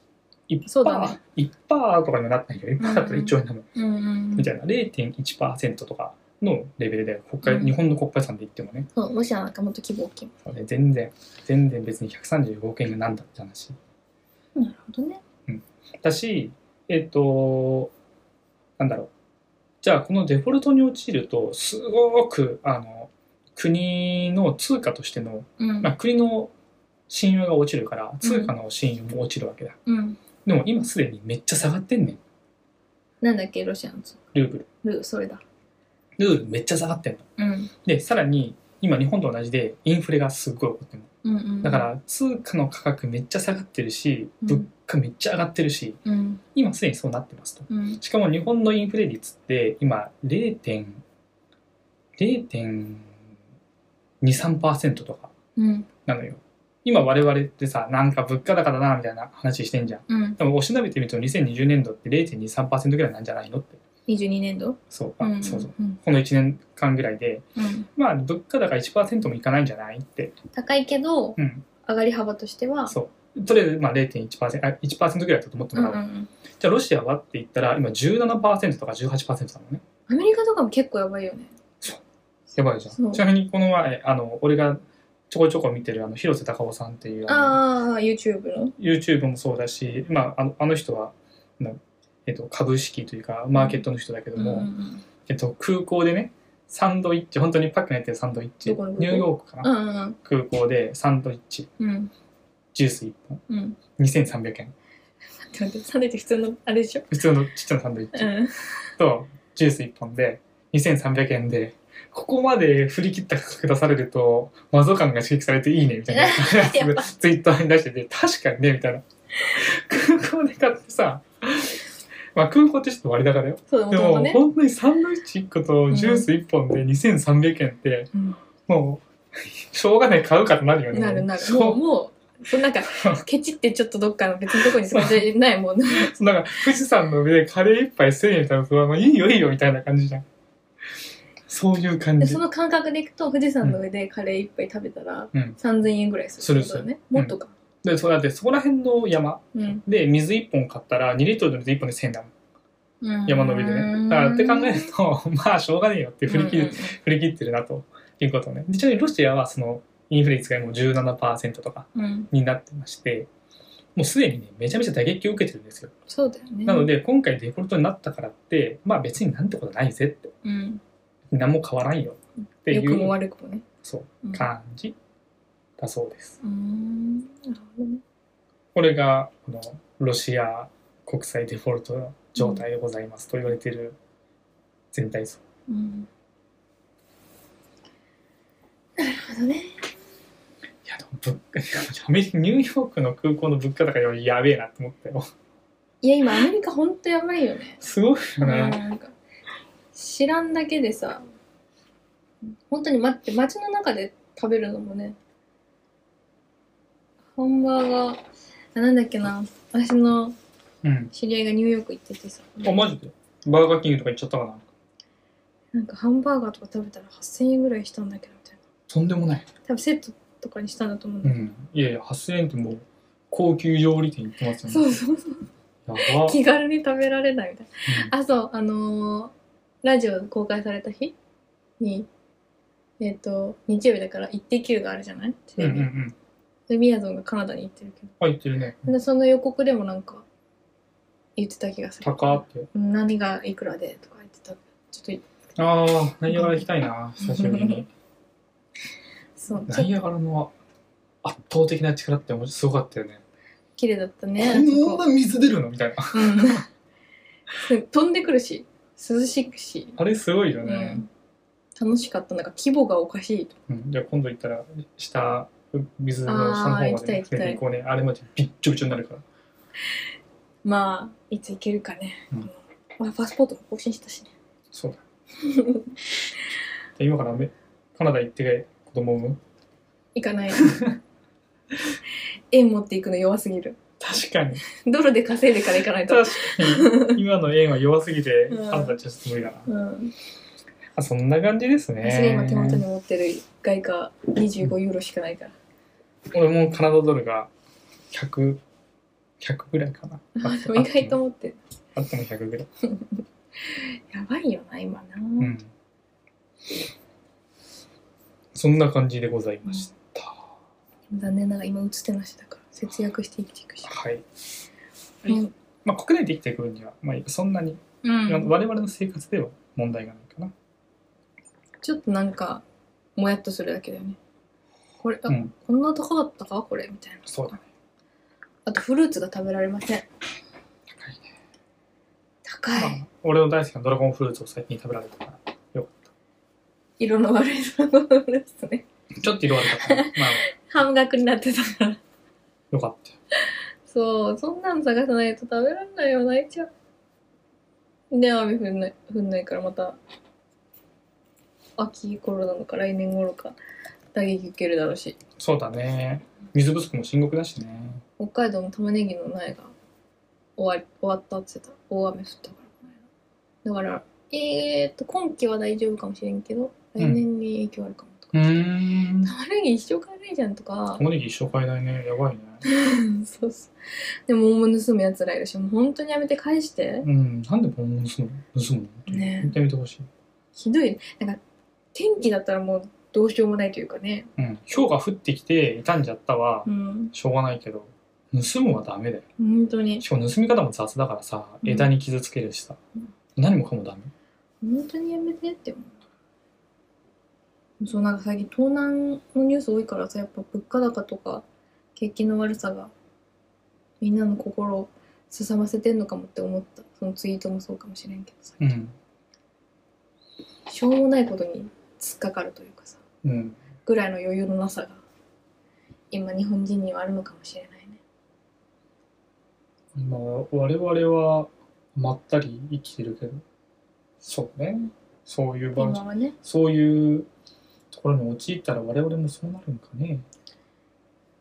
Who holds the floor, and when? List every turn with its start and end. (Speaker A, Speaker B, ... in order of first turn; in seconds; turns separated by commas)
Speaker A: 0.5-3.7, Speaker B: 0.7-1.2, Speaker B: 2.8-4.5, Speaker A: 4.4-8.9, Speaker B: 7.4-7.7, Speaker B: 8.9-10.3, Speaker A: 10.4-13.8, Speaker B: 14.6-15.2, Speaker A: 15.5-17.9, Speaker A: 18.8-19.1, Speaker A: 19.8-26.5, Speaker B: 25.6-25.9, Speaker A: 27.1-29.8, Speaker B: 28.2-28.5, Speaker B: 29.9-30.2, Speaker A: 30.4-32.2, Speaker B: 33.2-34.2, Speaker A: 34.3-34.7, Speaker B: 34.8-35.4, Speaker A: 36.2-37.3, Speaker B: 37.4-37.7, Speaker A: 37.8-41.1, Speaker B: 41.2-41.9, Speaker A: 41.6-46.0, Speaker B: 46.0-46.4, Speaker A: 46.5-51.0, Speaker B: 47.7-48.0, Speaker A: 52.2-53.1, Speaker A: 54.2-55.3, Speaker B: 55.6-55.9, Speaker A: 56.0-63.8, Speaker B: 60.1-60.4, Speaker B: 64.1-66.0, Speaker A: 64.9-70.3, Speaker B: 67.6-67.9, Speaker B: 70.5-73.0, Speaker A: 71.4-71.7, Speaker A: 72.9-76.0, Speaker B: 75.7-76.3, Speaker A: 76.6-79.8, Speaker B: 80.1-81.5, Speaker A: 82.5-87.6, Speaker B: 82.9-83.2, Speaker B: 87.3-88.8, Speaker A: 88.8-94.7, Speaker B: 93.5-93.8, Speaker B: 94.4-95.0, Speaker A: 95.2-99.7, Speaker B: 98.7-100.2, Speaker A: 100.2-101.7, Speaker B: 101.8-102.1, Speaker A: 102.8-103.4, Speaker B: 103.5-103.8, Speaker A: 104.0-104.7, Speaker B: 105.4-107.1, Speaker A: 107.1-108.3, Speaker B: 108.2-108.8, Speaker A: 109.0-121.8, Speaker B: 116.1-117.1, Speaker A: 122.3-128.1, Speaker B: 123.7-124.4, Speaker B: 125.9-126.3, Speaker B: 128.1-128.4, Speaker A: 128.7-131.8, Speaker B: 130.9-136.1, Speaker A: 132.9-133.2, Speaker A: 134.5-135.2, Speaker A: 135.9-140.2, Speaker A: 141.5-142.4, Speaker B: 142.2-147.5, Speaker A: 146.4-152.3, Speaker B: 149.5-149.8, Speaker B: 153.0-154.9, Speaker A: 153.3-163.3, Speaker B: 156.3-157.0, Speaker B: 161.9-162.3, Speaker A: 164.0-165.9, Speaker B: 166.1-166.9, Speaker A: 166.7-170.3, Speaker B: 170.4-170.8, Speaker A: 171.3-173.2, Speaker B: 172.7-173.7, Speaker A: 173.8-174.9, Speaker B: 174.2-174.5, Speaker A: 175.8-176.4, Speaker B: 176.4-178.0, Speaker A: 178.8-184.0, Speaker B: 182.4-182.6, Speaker A: 184.9-185.4, Speaker B: 185.7-186.1, Speaker B: 189.0-189.9, Speaker A: 190.9-195.3, Speaker B: 196.0-197.8, Speaker A: 197.8-198.8, Speaker B: 198.4-199.1, Speaker B: 199.9-201.3, Speaker B: 202.4-205.2, Speaker B: 207.3-208.2, Speaker B: 208.8-210.4, Speaker A: 210.8-211.1, Speaker B: 211.1-212.8, Speaker A: 212.6-214.7, Speaker B: 215.7-218.6, Speaker A: 218.9-219.5, Speaker B: 219.7-221.5, Speaker A: 221.2-225.0, Speaker B: 224.7-225.5, Speaker A: 225.9-226.4, Speaker B: 226.0-231.2, Speaker A: 227.9-228.1, Speaker B: 231.8-232.1, Speaker B: 233.0-235.9, Speaker A: 235.6-236.2, Speaker B: 236.7-238.1, Speaker A: 238.2-238.9, Speaker B: 238.9-240.2, Speaker B: 241.4-245.2, Speaker A: 242.0-242.7, Speaker A: 245.6-247.9, Speaker B: 246.3-246.6, Speaker B: 247.2-247.8, Speaker B: 249.4-249.9, Speaker A: 249.7-250.5, Speaker A: 251.2-253.2, Speaker B: 253.8-255.1, Speaker A: 254.4-256.6, Speaker B: 256.1-256.7, Speaker B: 257.6-260.0, Speaker A: 260.0-261.1, Speaker B: 260.6-261.1, Speaker B: 261.8-263.5, Speaker A: 263.7-269.2, Speaker B: 266.3-267.6, Speaker B: 270.6-274.3, Speaker A: 274.7-275.0, Speaker B: 275.4-276.0, Speaker A: 277.0-279.4, Speaker B: 280.1-280.8, Speaker A: 280.6-281.0, Speaker B: 282.5-283.8, Speaker A: 284.0-284.6, Speaker B: 284.6-287.2, Speaker A: 286.0-289.7, Speaker B: 288.5-289.0, Speaker B: 289.7-290.1, Speaker A: 291.0-292.9, Speaker B: 292.0-295.5, Speaker A: 296.3-297.5, Speaker A: 298.1-298.6, Speaker A: 299.4-301.2, Speaker B: 300.4-301.6, Speaker A: 301.9-302.7, Speaker B: 302.8-305.5, Speaker A: 305.4-305.7, Speaker A: 308.6-310.4, Speaker B: 311.1-313.9, Speaker A: 313.8-314.2, Speaker A: 315.2-320.5, Speaker B: 315.3-315.5, Speaker B: 318.0-318.5, Speaker B: 321.8-322.6, Speaker B: 323.2-324.2, Speaker B: 325.0-327.6, Speaker A: 325.3-325.5, Speaker A: 327.3-327.6, Speaker B: 328.7-330.1, Speaker A: 331.0-331.2, Speaker B: 332.4-333.0, Speaker A: 332.8-336.1, Speaker B: 337.0-338.9, Speaker A: 339.1-340.5, Speaker B: 339.7-342.0, Speaker A: 342.7-343.2, Speaker B: 343.5-346.7, Speaker B: 348.1-350.0, Speaker B: 351.8-353.6, Speaker B: 354.1-355.2, Speaker A: 355.4-358.0, Speaker B: 358.2-359.7, Speaker B: 360.6-362.9, Speaker B: 363.6-368.7, Speaker A: 368.3-369.3, Speaker B: 369.2-371.0, Speaker A: 370.9-372.6, Speaker B: 372.6-377.1, Speaker A: 377.0-380.1, Speaker B: 379.1-379.6, Speaker B: 380.6-381.4, Speaker B: 381.9-384.3, Speaker A: 384.4-389.2, Speaker B: 386.7-387.1, Speaker B: 389.4-390.1, Speaker A: 390.0-392.8, Speaker B: 391.6-391.9, Speaker A: 393.4-394.1, Speaker B: 394.6-396.0, Speaker B: 397.8-401.4, Speaker B: 402.0-402.9, Speaker B: 404.0-408.7, Speaker A: 408.6-408.9, Speaker B: 410.7-413.0, Speaker A: 413.2-413.6, Speaker B: 413.9-415.0, Speaker B: 416.1-418.0, Speaker A: 419.9-423.4, Speaker A: 424.2-427.3, Speaker B: 425.8-426.4, Speaker A: 427.9-430.2